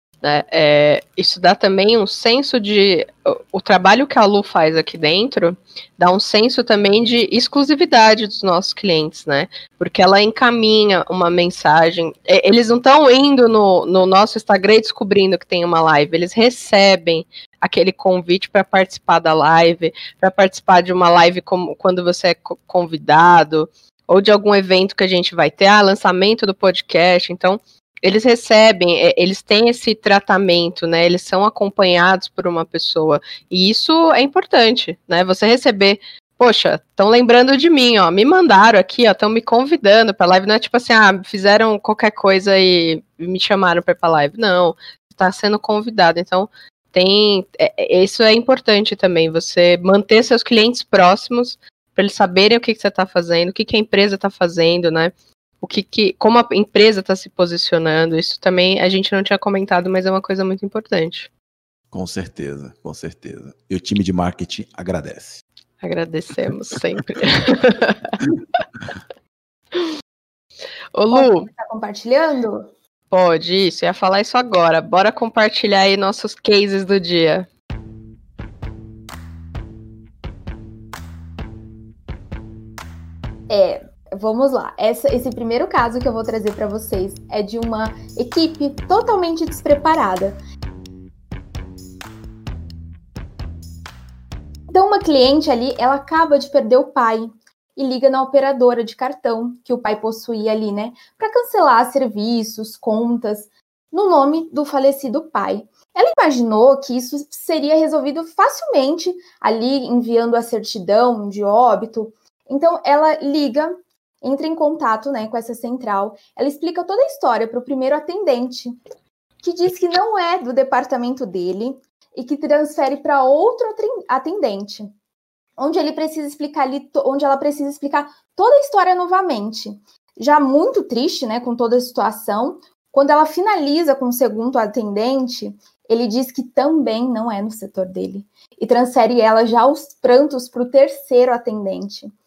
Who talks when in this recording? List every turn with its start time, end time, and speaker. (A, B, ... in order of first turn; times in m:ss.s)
0:00.2-1:01.3 A
1:01.9-1:05.4 B
1:05.8-1:08.2 A
1:10.9-1:11.5 A
1:11.1-1:12.7 C
1:13.1-1:17.5 A
1:23.5-1:30.4 C
1:34.7-1:58.8 C
1:59.4-2:04.9 C
2:05.6-2:22.1 C